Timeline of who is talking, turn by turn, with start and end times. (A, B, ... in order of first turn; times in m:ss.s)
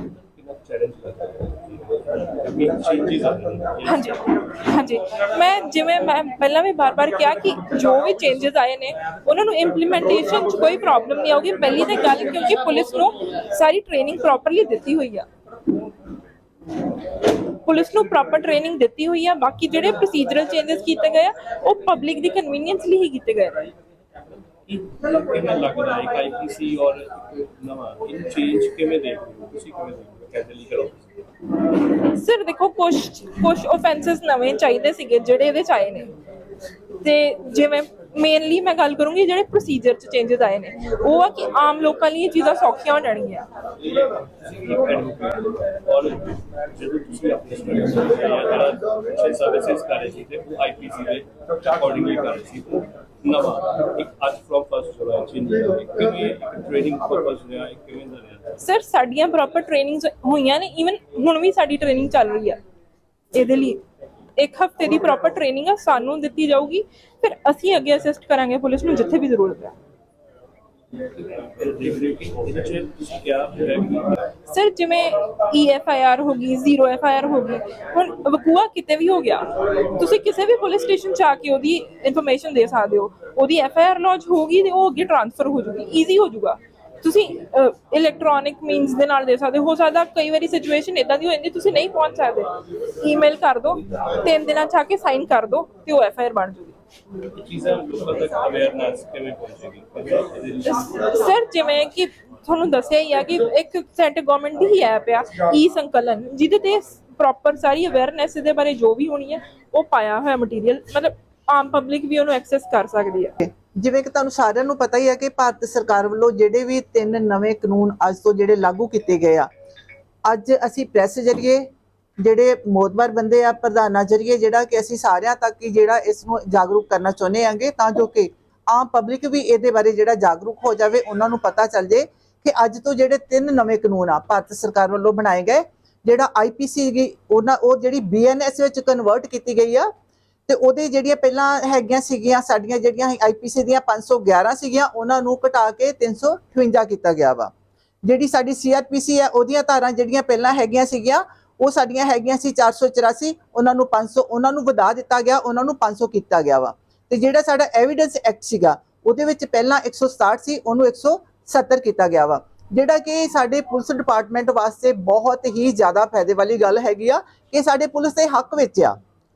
0:00.4-0:04.1 A
0:03.8-0:15.3 B
0:17.5-0:23.6 B
0:24.7-0:31.0 A
0:31.9-0:36.1 B
0:37.0-0:43.5 B
0:44.4-0:58.6 A
0:58.6-1:02.6 B
1:03.3-1:03.8 B
1:04.4-1:09.8 B
1:11.2-1:14.1 A
1:14.5-1:36.8 B
1:37.4-1:41.1 A
1:41.0-1:53.4 B
1:53.4-1:59.5 C
2:00.2-2:19.9 C
2:20.5-2:27.5 C
2:28.0-2:49.0 C